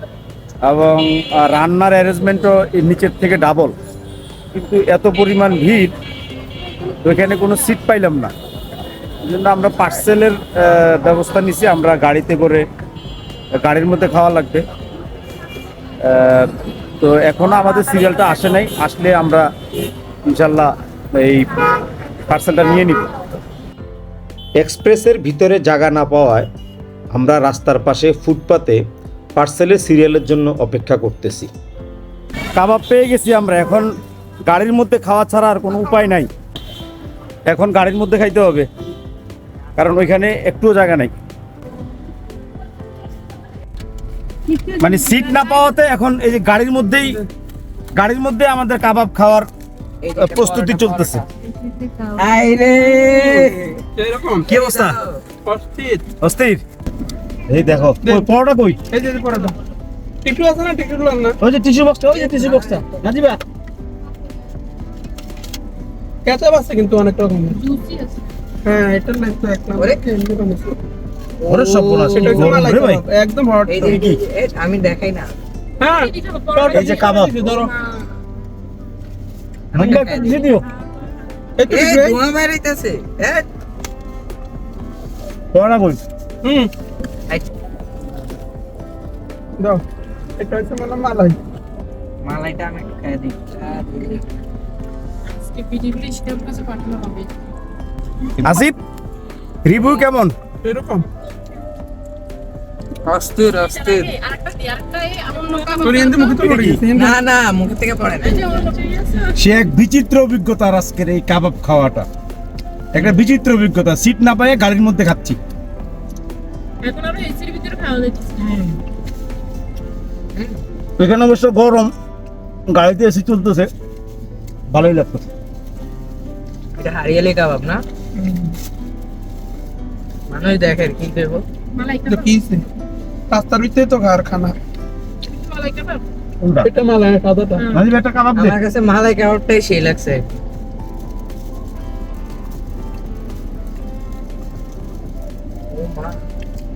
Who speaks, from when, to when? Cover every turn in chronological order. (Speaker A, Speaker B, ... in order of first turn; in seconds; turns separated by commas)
Speaker A: 0.6-3.8, Speaker A: 4.5-5.9, Speaker A: 7.0-8.3, Speaker A: 9.2-12.7, Speaker A: 13.6-14.7, Speaker A: 16.0-19.5, Speaker A: 20.3-21.6, Speaker A: 22.3-23.2, Speaker B: 24.6-26.4, Speaker B: 27.1-28.8, Speaker B: 29.4-31.5, Speaker A: 30.8-31.1, Speaker A: 32.5-33.9, Speaker A: 34.5-36.3, Speaker A: 37.5-38.7, Speaker A: 39.8-41.1, Speaker A: 44.8-47.2, Speaker A: 48.0-49.5, Speaker C: 50.0-51.3, Speaker A: 50.1-51.2, Speaker C: 51.8-53.9, Speaker D: 54.0-54.6, Speaker C: 54.4-55.2, Speaker A: 54.5-55.0, Speaker D: 55.4-56.1, Speaker A: 56.2-56.6, Speaker A: 57.5-58.8, Speaker D: 58.0-58.3, Speaker D: 58.9-59.6, Speaker D: 60.2-61.4, Speaker A: 61.4-63.4, Speaker C: 62.1-62.9, Speaker D: 66.2-67.6, Speaker E: 67.6-68.2, Speaker D: 68.6-70.8, Speaker C: 69.8-70.0, Speaker C: 71.4-72.6, Speaker A: 71.5-73.0, Speaker D: 72.1-74.0, Speaker C: 73.7-75.3, Speaker A: 73.9-74.2, Speaker D: 75.8-77.7, Speaker E: 75.9-76.9, Speaker A: 76.6-77.7, Speaker C: 79.7-80.5, Speaker A: 79.8-80.7, Speaker D: 81.6-82.2, Speaker C: 81.7-83.5, Speaker A: 85.5-86.0, Speaker D: 86.4-86.7, Speaker D: 89.6-89.8, Speaker D: 90.4-91.4, Speaker C: 92.2-94.2, Speaker E: 95.4-97.3, Speaker A: 98.4-98.8, Speaker A: 99.7-100.3, Speaker D: 100.6-101.0, Speaker C: 103.1-104.1, Speaker E: 103.7-106.5, Speaker D: 105.8-107.2, Speaker A: 106.4-106.8, Speaker C: 106.9-108.7, Speaker E: 108.2-109.3, Speaker A: 109.4-112.1, Speaker A: 112.9-115.4, Speaker E: 116.8-118.6, Speaker C: 120.4-120.6, Speaker A: 121.0-121.9, Speaker A: 122.7-123.7, Speaker A: 124.7-125.3, Speaker C: 126.8-127.8, Speaker D: 128.2-128.5, Speaker C: 130.3-131.4, Speaker E: 131.7-132.3, Speaker D: 132.1-132.7, Speaker D: 133.3-134.6, Speaker E: 135.3-136.0, Speaker A: 136.4-136.7, Speaker D: 136.6-137.7, Speaker A: 137.7-138.6, Speaker C: 138.3-140.2, Speaker C: 145.7-146.2